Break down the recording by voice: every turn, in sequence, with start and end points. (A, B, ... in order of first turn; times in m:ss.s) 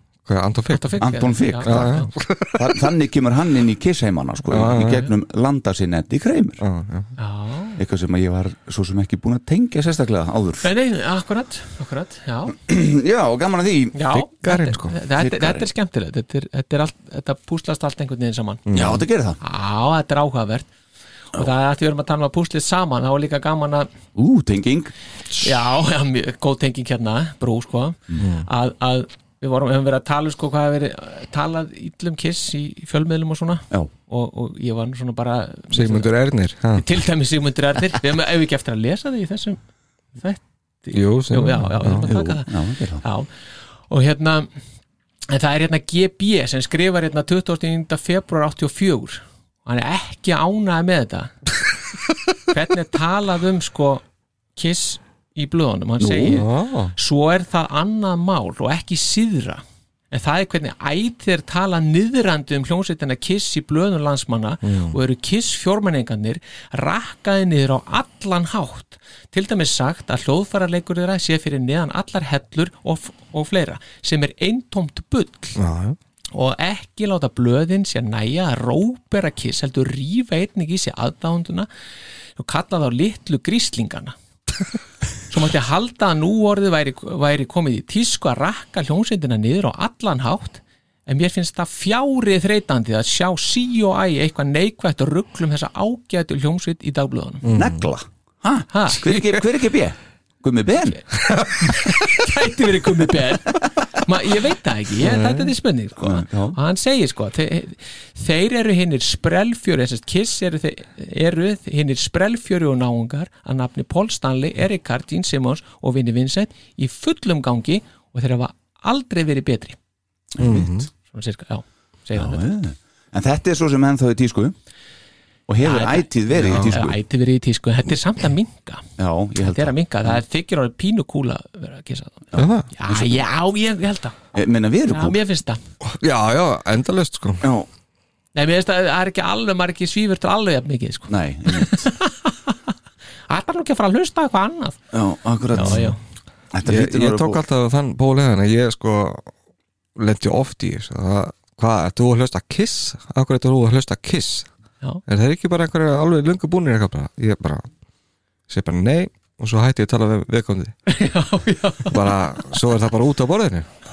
0:00.2-0:02.8 A
0:00.7-0:02.1 B
0:01.0-0:02.0 C
0:02.5-0:06.6 C
0:04.5-0:05.0 A
0:06.6-0:07.1 A
0:07.2-0:07.8 B
0:07.8-0:10.7 C
0:10.6-0:12.6 B
0:12.5-0:14.0 C
0:13.9-0:18.6 B
0:14.1-0:15.0 A
0:15.2-0:15.6 C
0:18.7-0:19.0 A
0:18.7-0:19.4 C
0:19.4-0:20.7 B
0:21.3-0:23.9 B
0:24.2-0:24.9 C
0:25.4-0:36.1 B
0:28.2-0:28.5 A
0:35.7-0:36.8 A
0:36.7-0:39.6 B
0:40.2-0:43.3 B
0:40.9-0:42.1 A
0:42.0-0:43.0 C
0:43.9-0:44.5 B
0:45.3-0:51.4 B
0:52.5-0:54.0 B
0:54.6-1:15.6 B
0:56.0-0:56.4 C
0:56.3-0:56.9 A
1:04.6-1:05.0 A
1:15.6-1:16.0 A
1:16.3-1:21.7 B
1:22.4-1:24.1 B
1:25.3-1:37.4 B
1:37.4-1:37.8 A
1:37.5-1:41.0 C
1:38.7-1:39.0 B
1:41.6-1:59.8 B
1:45.0-1:45.5 A
1:46.0-1:46.6 C
2:00.3-2:00.9 C
2:00.4-2:00.9 A
2:01.1-2:02.4 B
2:02.1-2:04.5 C
2:05.5-2:07.0 C
2:05.6-2:08.8 B
2:06.4-2:06.7 A
2:09.0-2:10.2 C
2:09.4-2:14.2 B
2:12.3-2:13.2 C
2:12.4-2:12.7 A
2:14.3-2:15.2 C
2:14.9-2:15.6 B
2:15.8-2:17.5 A
2:17.4-2:17.7 C
2:18.3-2:22.6 B
2:21.1-2:21.9 C
2:23.3-2:24.8 B
2:24.9-2:25.9 C
2:25.5-2:26.0 B
2:25.6-2:25.9 A
2:26.5-2:27.4 C
2:26.6-2:29.3 A
2:30.0-2:34.5 A
2:35.1-2:37.7 A
2:38.5-2:40.7 A
2:40.9-2:42.0 B
2:41.9-2:43.7 A